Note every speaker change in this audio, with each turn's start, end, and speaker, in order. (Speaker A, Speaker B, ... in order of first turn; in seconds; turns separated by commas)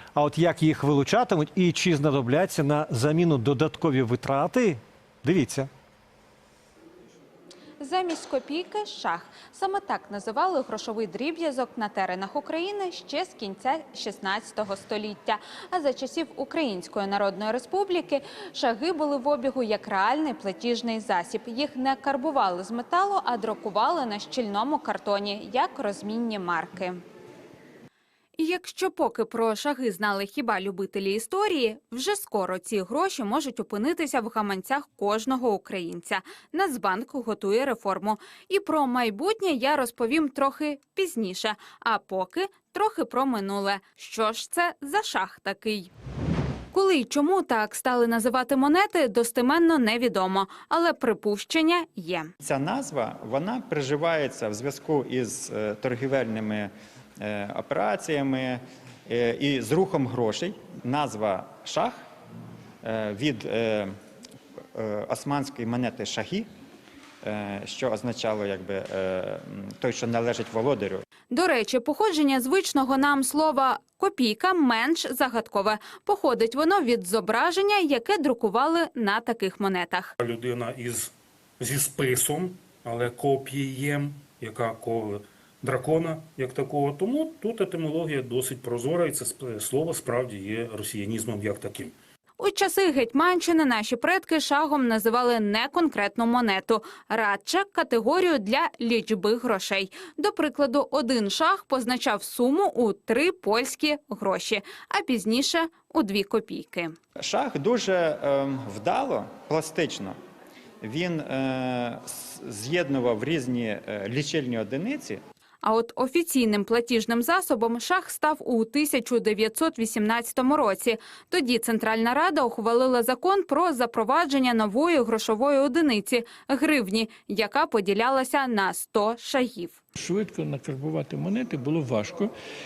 Speaker A: 0.1-5.7, Speaker B: 7.8-27.0, Speaker B: 28.4-45.9, Speaker B: 46.7-52.3, Speaker C: 52.4-62.0, Speaker C: 62.8-63.9, Speaker C: 64.8-66.5, Speaker C: 67.2-71.0, Speaker B: 71.3-80.1, Speaker D: 80.2-91.9, Speaker B: 92.4-106.9, Speaker C: 107.2-110.2, Speaker C: 110.8-115.2, Speaker B: 115.6-129.8, Speaker E: 130.0-132.2